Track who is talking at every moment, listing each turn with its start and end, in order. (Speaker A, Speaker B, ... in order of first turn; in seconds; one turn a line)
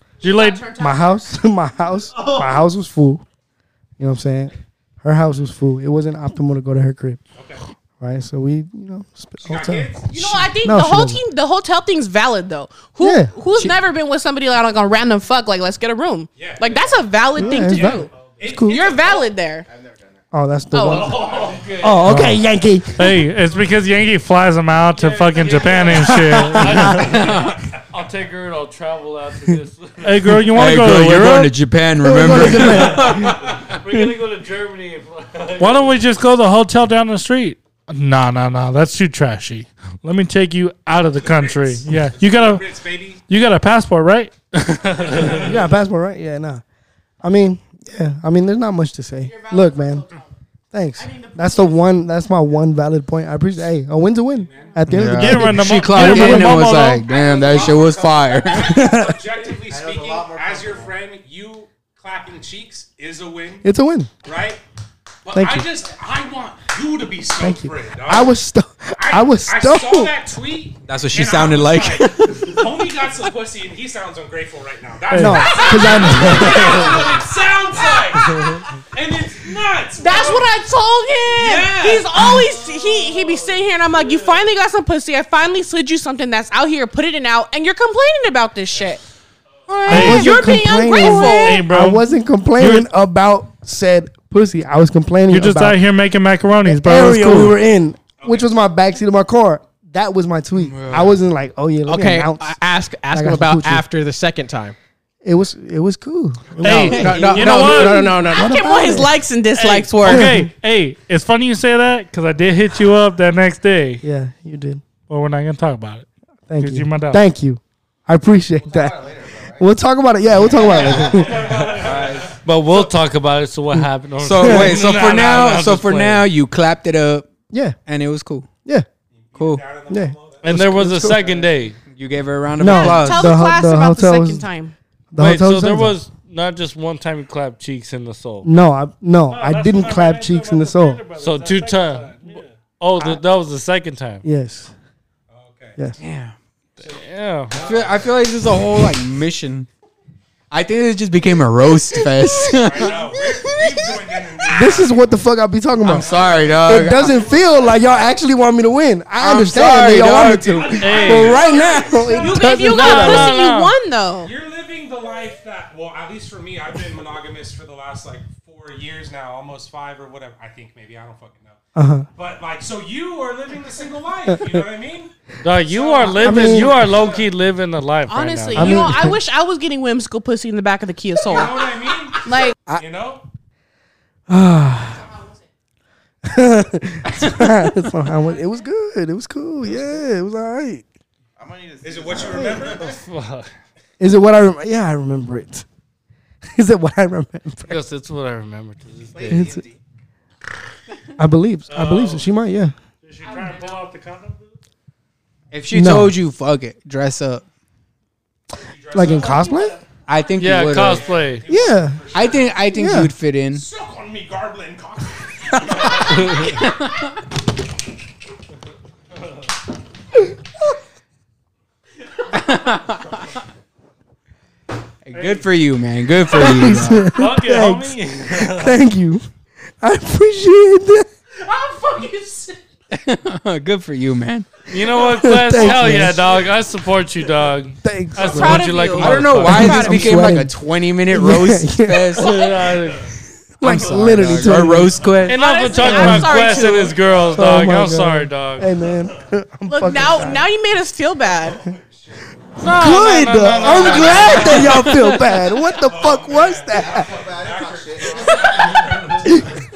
Speaker A: 0.2-0.7
Speaker B: 0.2-1.3
Speaker C: 0.7-3.2
Speaker C: 4.0-7.2
Speaker D: 7.4-7.6
Speaker C: 8.0-11.2
Speaker D: 9.4-10.4
Speaker B: 10.1-18.1
Speaker C: 13.0-13.7
Speaker D: 16.4-19.2
Speaker E: 16.7-17.1
Speaker C: 17.4-18.8
Speaker E: 18.1-20.3
Speaker B: 18.7-19.7
Speaker C: 20.3-21.2
Speaker B: 20.7-21.3
Speaker F: 20.9-22.1
Speaker E: 21.0-22.8
Speaker C: 21.8-23.2
Speaker A: 22.0-22.4
Speaker A: 22.9-27.3
Speaker F: 24.9-30.3
Speaker C: 26.2-26.9
Speaker G: 27.1-27.6
Speaker A: 30.0-31.5
Speaker G: 30.5-33.5
Speaker C: 32.0-33.4
Speaker F: 33.2-36.0
Speaker A: 35.6-42.6
Speaker D: 41.2-43.2
Speaker A: 43.3-45.4
Speaker C: 45.2-46.6
Speaker C: 47.2-50.0
Speaker B: 49.2-50.3
Speaker C: 50.7-56.7
Speaker B: 51.0-51.9
Speaker D: 54.4-54.8
Speaker B: 54.6-54.9
Speaker G: 54.9-58.8
Speaker A: 55.0-57.1
Speaker E: 57.0-59.0
Speaker D: 57.2-57.8
Speaker D: 58.4-63.6
Speaker C: 58.5-59.2
Speaker E: 59.6-61.0
Speaker C: 63.6-64.1
Speaker D: 64.2-64.6
Speaker D: 65.2-68.3
Speaker C: 65.3-65.7
Speaker C: 67.4-70.3
Speaker D: 69.0-80.5
Speaker G: 70.9-72.6
Speaker A: 75.1-75.5
Speaker C: 75.1-77.1
Speaker B: 75.5-77.2
Speaker B: 77.7-78.7
Speaker B: 80.0-89.0
Speaker D: 81.3-82.4
Speaker B: 89.7-91.7
Speaker C: 89.9-95.8
Speaker A: 89.9-90.4
Speaker A: 91.0-92.9
Speaker A: 95.3-97.6
Speaker C: 96.7-102.6
Speaker D: 98.2-98.5
Speaker G: 100.6-101.2
Speaker H: 101.9-104.8
Speaker C: 103.1-103.8
Speaker C: 105.2-109.1
Speaker D: 106.5-107.4
Speaker A: 106.6-108.3
Speaker H: 106.6-108.9
Speaker G: 106.7-107.7
Speaker B: 108.4-110.3
Speaker A: 109.5-114.0
Speaker C: 110.0-110.5
Speaker C: 114.0-114.8
Speaker A: 115.1-116.1
Speaker C: 116.5-121.5
Speaker A: 116.6-117.2
Speaker E: 118.6-119.7
Speaker E: 120.4-122.3
Speaker D: 120.7-122.4
Speaker G: 121.8-122.3
Speaker F: 122.4-126.3
Speaker G: 124.2-127.3
Speaker C: 124.4-124.8
Speaker C: 127.5-127.8
Speaker G: 127.8-128.5
Speaker D: 129.1-130.5
Speaker G: 129.4-129.6
Speaker C: 129.9-131.3
Speaker F: 130.4-131.8
Speaker G: 131.9-133.4
Speaker C: 132.6-134.5
Speaker B: 132.6-134.8
Speaker C: 135.1-136.0
Speaker F: 135.2-138.5
Speaker C: 138.4-141.0
Speaker A: 139.3-142.5
Speaker F: 141.2-142.2
Speaker F: 142.8-144.2
Speaker C: 144.2-144.7
Speaker D: 145.3-145.8
Speaker G: 146.0-146.3
Speaker D: 146.8-148.2
Speaker F: 146.8-147.6
Speaker G: 147.6-149.7
Speaker G: 150.5-153.8
Speaker C: 152.0-152.8
Speaker D: 152.6-155.2
Speaker C: 154.5-163.4
Speaker G: 155.8-157.2
Speaker D: 156.1-156.6
Speaker G: 159.2-160.8
Speaker D: 160.6-162.3
Speaker A: 160.7-161.3
Speaker F: 160.8-161.4
Speaker B: 161.4-164.3
Speaker A: 162.6-163.7
Speaker F: 162.8-163.1
Speaker D: 164.2-171.6
Speaker C: 171.8-172.1
Speaker D: 172.2-175.1
Speaker C: 174.3-174.7
Speaker F: 175.4-178.9
Speaker D: 175.7-177.3
Speaker C: 176.1-176.9
Speaker B: 178.1-182.6
Speaker C: 178.5-179.2
Speaker D: 181.2-183.2
Speaker C: 184.3-185.1
Speaker B: 184.8-185.5
Speaker C: 186.2-190.8
Speaker B: 188.2-188.6
Speaker E: 189.6-190.0
Speaker E: 191.4-193.0
Speaker D: 191.8-193.0
Speaker F: 192.8-193.5
Speaker C: 194.0-195.7
Speaker C: 196.6-197.8
Speaker F: 197.7-199.5
Speaker E: 199.0-199.8
Speaker C: 199.3-199.6
Speaker C: 201.2-202.7
Speaker D: 201.7-202.2
Speaker A: 203.0-204.6
Speaker B: 203.2-203.8
Speaker G: 205.5-207.4
Speaker C: 205.7-206.2
Speaker D: 208.7-209.6
Speaker C: 208.9-209.8
Speaker B: 209.1-210.4
Speaker G: 210.1-211.2
Speaker F: 210.4-211.4
Speaker D: 210.6-212.7
Speaker C: 211.5-212.1
Speaker G: 212.1-213.7
Speaker C: 212.7-213.1
Speaker D: 213.5-216.7
Speaker G: 216.1-217.0
Speaker G: 222.3-223.2
Speaker G: 225.0-227.2
Speaker A: 225.1-225.5
Speaker C: 226.3-229.2
Speaker A: 227.0-228.8
Speaker C: 229.8-231.1
Speaker B: 231.3-232.6
Speaker G: 232.9-234.5
Speaker F: 234.7-240.2
Speaker B: 234.8-236.0
Speaker C: 235.1-236.2
Speaker C: 237.8-238.8
Speaker B: 238.2-239.2
Speaker G: 238.5-242.4
Speaker C: 239.4-240.6
Speaker C: 241.1-242.3
Speaker F: 242.2-243.1
Speaker C: 243.6-245.1
Speaker G: 243.7-245.4
Speaker F: 245.2-248.7
Speaker B: 245.3-247.0
Speaker C: 245.8-246.4
Speaker D: 246.9-247.2
Speaker C: 247.4-250.5
Speaker B: 249.7-251.7
Speaker F: 252.6-254.7
Speaker C: 252.7-257.1
Speaker D: 253.4-255.0
Speaker G: 254.6-255.1
Speaker D: 255.6-259.6
Speaker E: 256.7-259.3